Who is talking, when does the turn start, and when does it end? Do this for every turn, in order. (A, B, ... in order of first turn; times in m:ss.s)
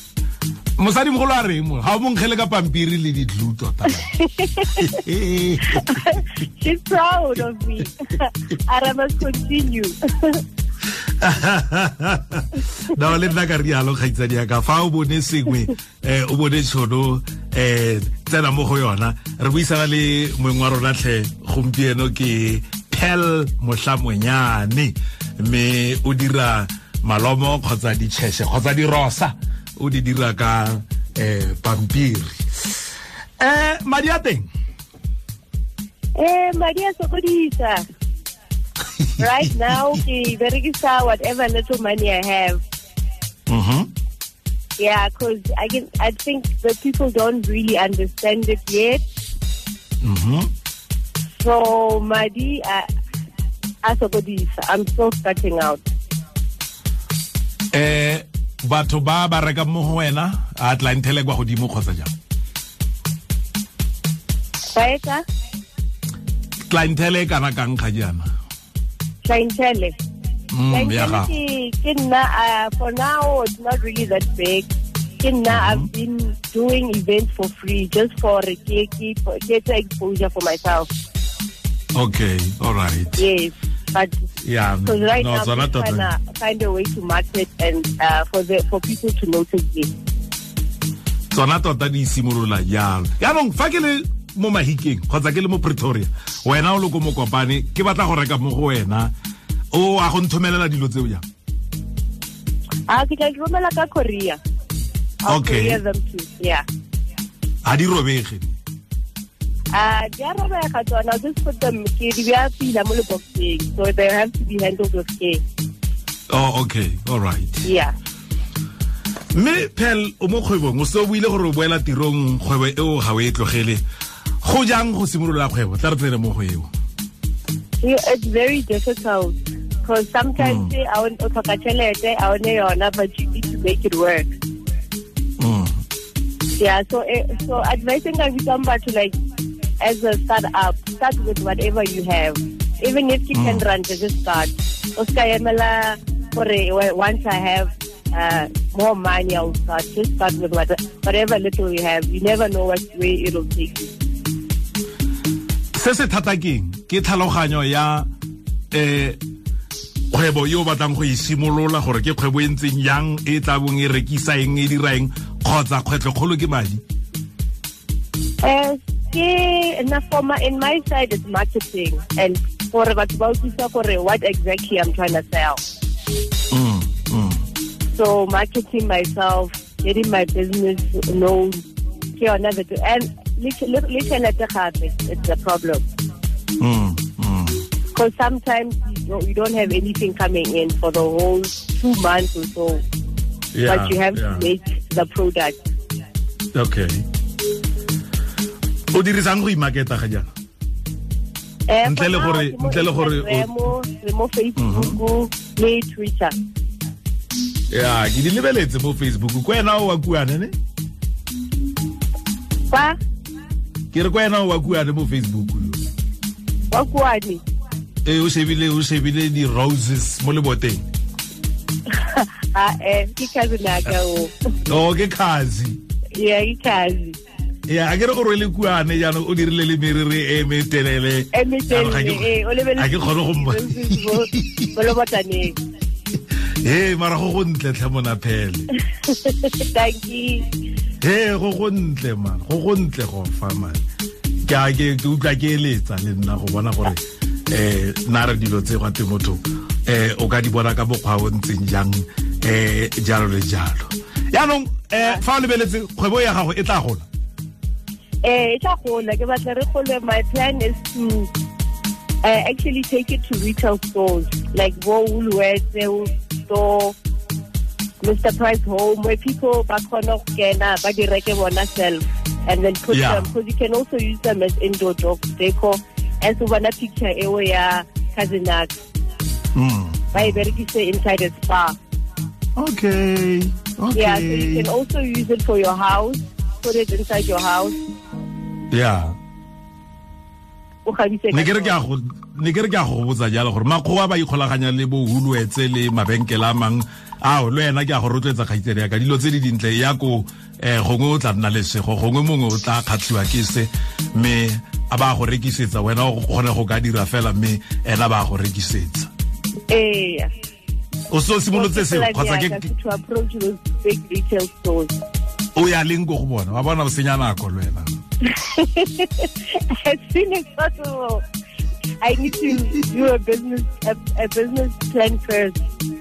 0:00.8-0:04.1 A
0:03.9-0:05.0 B
0:04.7-0:06.2 A
0:05.6-0:10.4 B
0:11.2-0:32.3 A
0:33.4-0:34.5 A
0:36.2-0:37.8 B
0:39.2-0:42.6 B
0:43.5-0:43.9 A
0:44.8-0:49.0 B
0:50.0-0:50.5 A
0:51.4-0:52.9 B
0:53.8-0:55.8 B
0:57.7-1:02.1 A
1:04.7-1:05.2 B
1:06.7-1:08.3 A
1:09.2-1:09.9 B
1:10.5-1:11.3 A
1:10.7-1:14.7 B
1:15.2-1:20.9 B
1:15.5-1:15.9 A
1:21.9-1:23.2 A
1:23.2-1:24.2 B
1:24.4-1:26.1 A
1:24.8-1:29.9 B
1:31.3-1:39.1 A
1:39.7-1:41.2 A
1:42.9-1:44.4 B
1:45.2-1:46.6 B
1:45.3-1:45.8 A
1:47.6-1:48.5 A
1:49.7-1:55.4 B
1:56.3-1:57.6 A
1:57.6-1:57.9 B
1:59.3-2:03.8 A
2:04.4-2:06.7 A
2:07.8-2:14.3 B
2:10.4-2:10.7 A
2:15.4-2:15.7 A
2:16.6-2:19.1 B
2:19.8-2:33.9 B
2:23.3-2:23.6 A
2:35.7-2:38.1 A
2:38.7-2:39.2 A
2:40.1-2:46.8 A
2:48.4-2:55.6 B
2:56.5-2:57.4 A
2:57.9-3:01.6 B
3:02.2-3:05.8 B
3:06.6-3:07.6 A
3:07.9-3:12.8 B
3:13.5-3:14.5 A
3:13.6-3:15.6 B
3:16.5-3:17.0 A
3:18.9-3:20.3 A
3:21.7-3:26.3 B
3:21.8-3:23.5 A
3:24.6-3:25.0 A
3:27.7-3:30.5 A
3:32.7-3:33.0 B
3:33.9-3:35.8 A
3:36.7-3:37.4 B
3:38.0-3:40.8 A
3:41.9-3:44.3 B
3:44.7-3:45.8 A
3:46.2-3:47.2 B
3:47.7-3:54.7 A
3:51.3-3:55.6 B
3:56.6-3:58.7 A
3:59.0-4:00.4 B
4:01.0-4:03.8 A
4:04.4-4:17.0 A
4:18.2-4:21.3 B
4:22.2-4:27.0 B
4:28.0-4:38.7 B
4:32.9-4:33.3 A
4:39.5-4:40.4 A
4:40.1-4:41.8 B
4:42.6-4:44.7 A
4:43.9-4:47.8 B
4:48.7-4:49.1 A
4:50.8-4:51.8 B
4:51.3-5:09.1 A
5:09.7-5:10.3 B
5:11.1-5:12.6 A
5:11.5-5:14.9 B
5:15.6-5:17.9 A
5:18.3-5:21.2 B
5:22.0-5:25.6 B